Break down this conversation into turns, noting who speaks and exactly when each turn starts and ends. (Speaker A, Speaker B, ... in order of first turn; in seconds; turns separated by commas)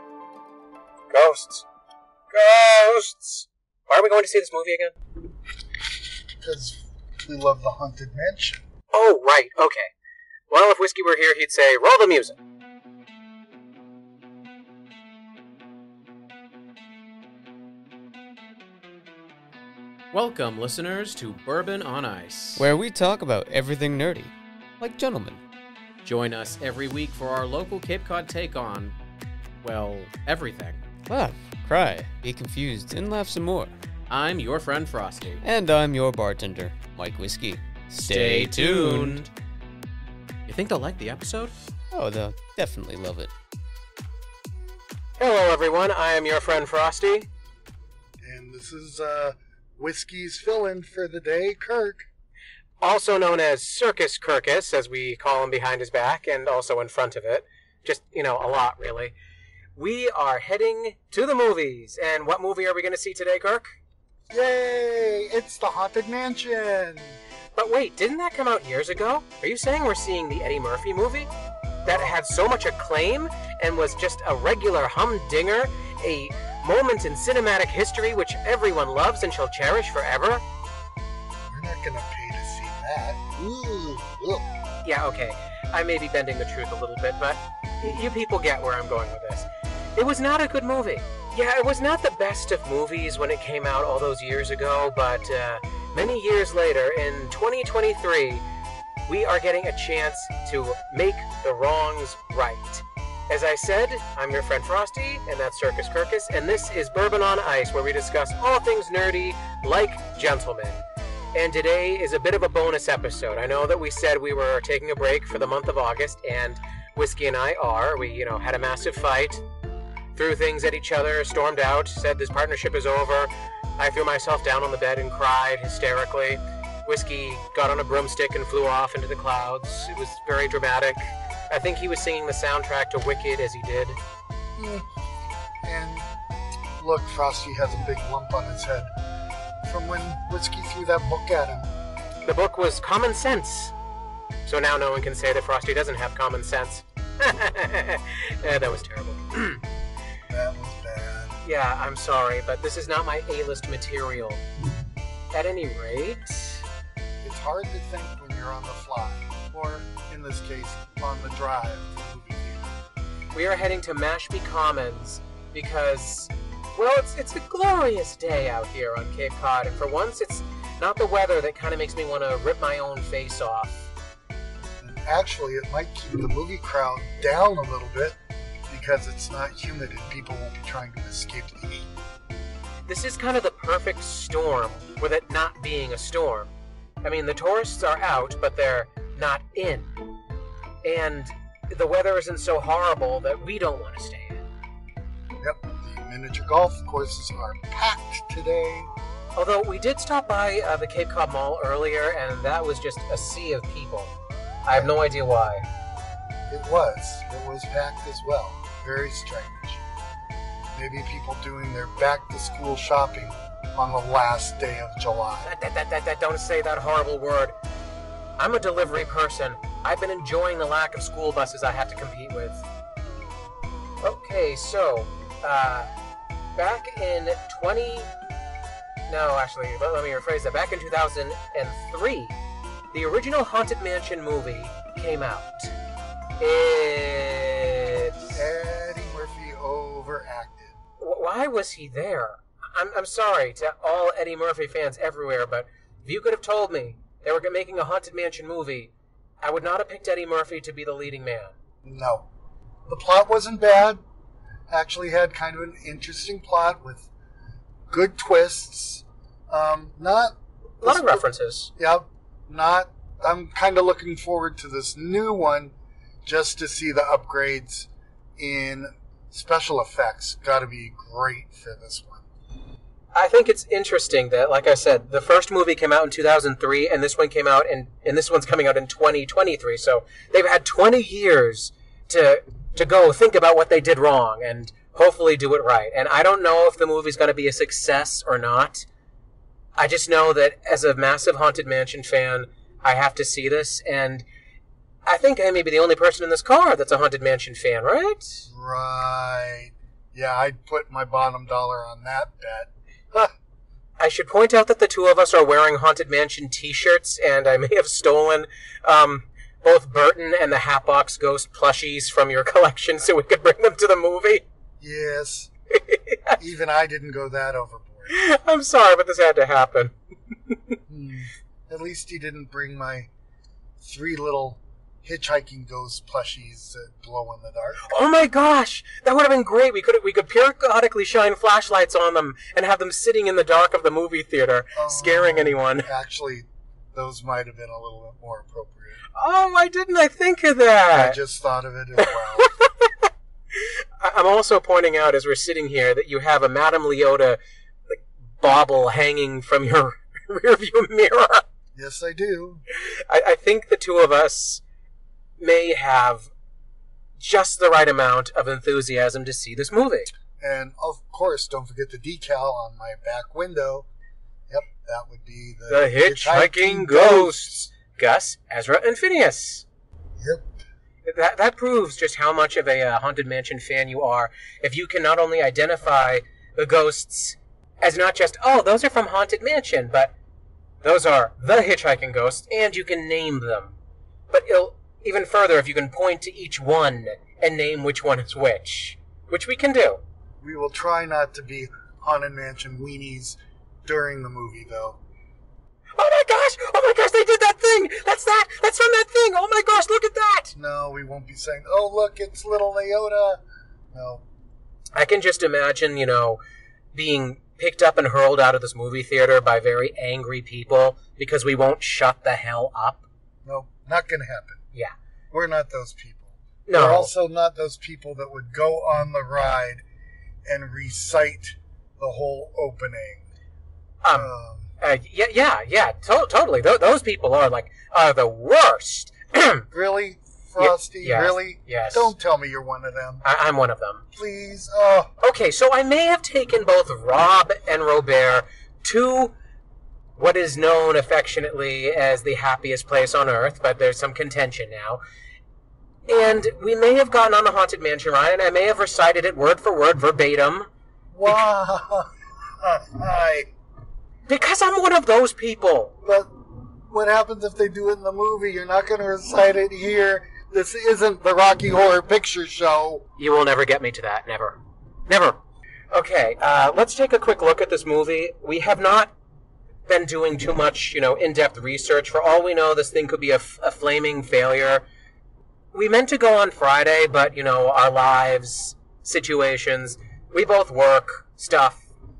Speaker A: 1.1-1.6, Speaker A: 2.3-4.9, Speaker B: 6.4-8.7, Speaker A: 8.9-9.9, Speaker A: 10.5-12.3, Speaker C: 20.1-22.7, Speaker D: 22.5-25.4, Speaker C: 26.0-28.9, Speaker C: 29.6-30.8, Speaker D: 31.1-33.8, Speaker C: 34.1-35.4, Speaker D: 35.4-39.2, Speaker C: 38.0-39.3, Speaker C: 40.5-41.5, Speaker D: 41.9-43.3, Speaker A: 45.2-47.3, Speaker B: 48.2-52.1, Speaker A: 52.8-59.1, Speaker A: 59.8-63.8, Speaker B: 64.3-67.2, Speaker A: 67.5-71.3, Speaker B: 71.8-72.1, Speaker A: 71.8-80.4, Speaker B: 81.5-84.5, Speaker A: 84.8-98.4, Speaker A: 99.0-110.8, Speaker A: 111.3-119.4, Speaker A: 120.1-134.0, Speaker B: 134.6-134.8, Speaker B: 135.6-136.1, Speaker B: 136.8-138.9, Speaker B: 139.6-141.7, Speaker A: 142.2-143.7, Speaker A: 144.4-149.6, Speaker B: 150.3-151.4, Speaker A: 151.4-154.4, Speaker A: 155.3-156.6, Speaker B: 157.2-162.8, Speaker A: 163.3-173.9, Speaker B: 174.8-178.2, Speaker B: 178.7-181.9, Speaker A: 182.9-189.9, Speaker A: 190.8-194.5, Speaker B: 195.4-198.9, Speaker A: 199.3-205.6, Speaker B: 206.5-209.8, Speaker B: 210.7-215.5, Speaker A: 215.4-217.5, Speaker A: 218.4-222.6, Speaker A: 224.0-225.9, Speaker A: 226.6-228.1, Speaker A: 229.1-232.4, Speaker A: 232.9-235.7, Speaker A: 236.4-238.3, Speaker B: 238.3-240.8, Speaker A: 241.0-251.5, Speaker B: 251.8-252.3, Speaker B: 252.9-254.0, Speaker B: 254.7-257.1, Speaker B: 257.9-261.2, Speaker A: 260.8-261.7, Speaker B: 261.8-272.2, Speaker A: 273.1-288.9, Speaker A: 289.8-294.2, Speaker A: 295.1-298.4, Speaker B: 298.5-303.3, Speaker A: 304.0-314.4, Speaker B: 314.8-315.5, Speaker A: 315.8-316.4, Speaker B: 316.4-318.1, Speaker A: 318.1-319.9, Speaker B: 320.9-323.1, Speaker B: 323.8-327.9, Speaker A: 327.8-335.9, Speaker B: 334.7-339.0, Speaker A: 339.1-341.2, Speaker B: 340.9-342.5, Speaker A: 342.6-342.9, Speaker A: 343.5-351.4, Speaker B: 351.7-352.6, Speaker A: 352.7-354.6, Speaker A: 355.4-356.3, Speaker A: 357.2-360.1, Speaker B: 360.4-363.9, Speaker B: 364.5-367.7, Speaker A: 365.7-369.6, Speaker B: 370.2-370.5, Speaker A: 371.0-380.1, Speaker A: 380.8-383.7, Speaker A: 384.3-390.0, Speaker B: 390.4-395.0, Speaker A: 395.9-400.5, Speaker B: 400.5-403.4, Speaker B: 403.9-404.2, Speaker A: 404.9-406.4, Speaker A: 406.9-413.1, Speaker B: 413.4-414.6, Speaker B: 415.3-419.8, Speaker A: 416.7-417.1, Speaker B: 420.4-423.3, Speaker A: 424.0-429.6, Speaker B: 424.1-424.7, Speaker B: 429.7-433.2, Speaker A: 430.6-432.1, Speaker A: 433.2-434.0, Speaker B: 434.1-435.1, Speaker A: 435.2-439.3, Speaker A: 440.2-445.0, Speaker A: 446.1-450.7, Speaker B: 451.1-453.5, Speaker A: 454.3-455.9, Speaker B: 456.0-463.1, Speaker A: 463.2-465.4, Speaker A: 465.9-469.1, Speaker A: 469.9-474.8, Speaker A: 475.7-481.9